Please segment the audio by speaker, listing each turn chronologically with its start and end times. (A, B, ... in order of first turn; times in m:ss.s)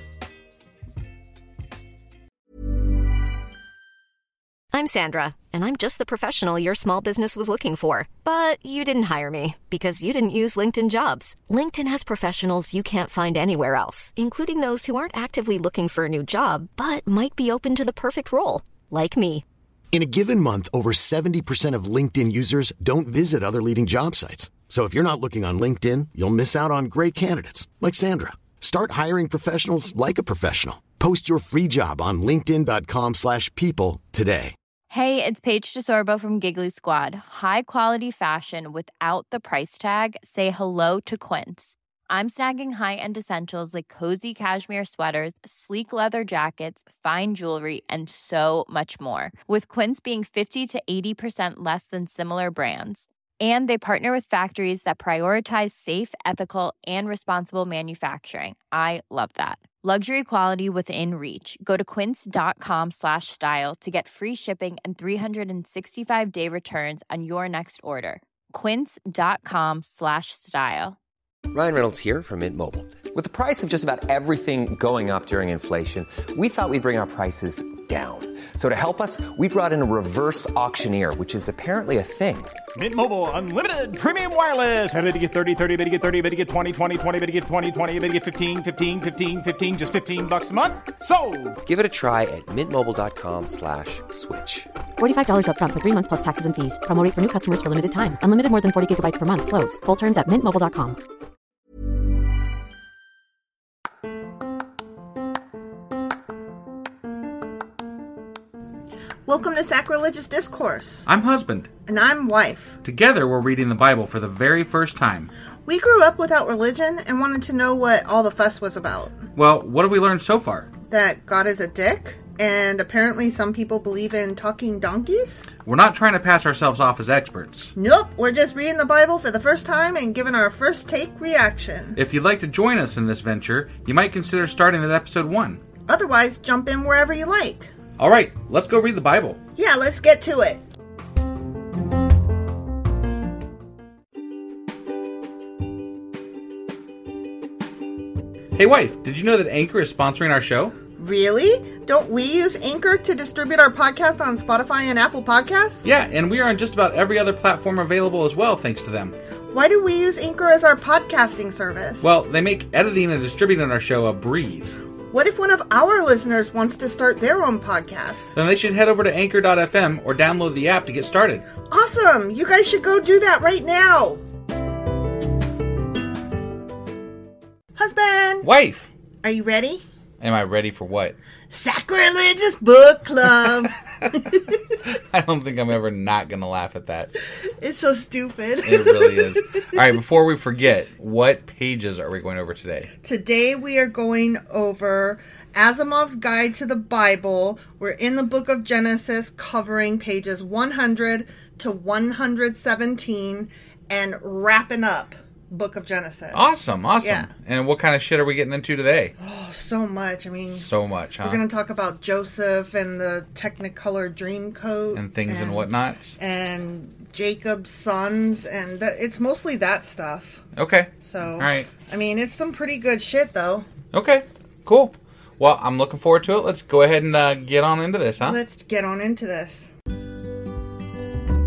0:04.7-0:19.4 A
0:19.9-0:34.5 B
0:34.9-1:11.0 C
1:11.5-1:22.5 D
1:22.7-1:31.6 E
1:31.6-1:34.7 D
1:35.0-1:41.0 F
1:49.3-1:51.0 G
1:51.0-1:51.7 H
1:51.8-1:52.8 G
1:52.8-1:55.3 H
1:55.6-1:59.2 G
1:59.4-2:00.7 H
2:00.9-2:05.4 G
2:05.6-2:07.7 H
2:07.8-2:12.0 G
2:12.0-2:15.6 H
2:15.9-2:17.7 G
2:18.0-2:19.4 H
2:19.6-2:20.6 G
2:28.5-2:30.7 H
2:31.0-2:35.8 G
2:35.8-2:39.1 H
2:39.5-2:42.1 G
2:42.0-2:44.8 H
2:45.1-2:48.3 G
2:48.3-2:51.4 H
2:51.7-2:54.2 G
2:57.8-2:58.5 G
2:58.4-2:58.8 H
2:59.2-2:59.8 G
3:00.2-3:01.2 H
3:01.5-3:04.4 G
3:04.0-3:07.1 H
3:07.6-3:09.4 G
3:08.6-3:12.9 H
3:13.0-3:27.3 G
3:26.3-3:29.1 H
3:29.2-3:30.6 G
3:30.5-3:31.4 H
3:31.2-3:40.4 G
3:34.9-3:36.2 H
3:40.6-3:41.7 H
3:41.0-3:43.6 G
3:43.9-3:48.4 H
3:48.2-3:49.7 G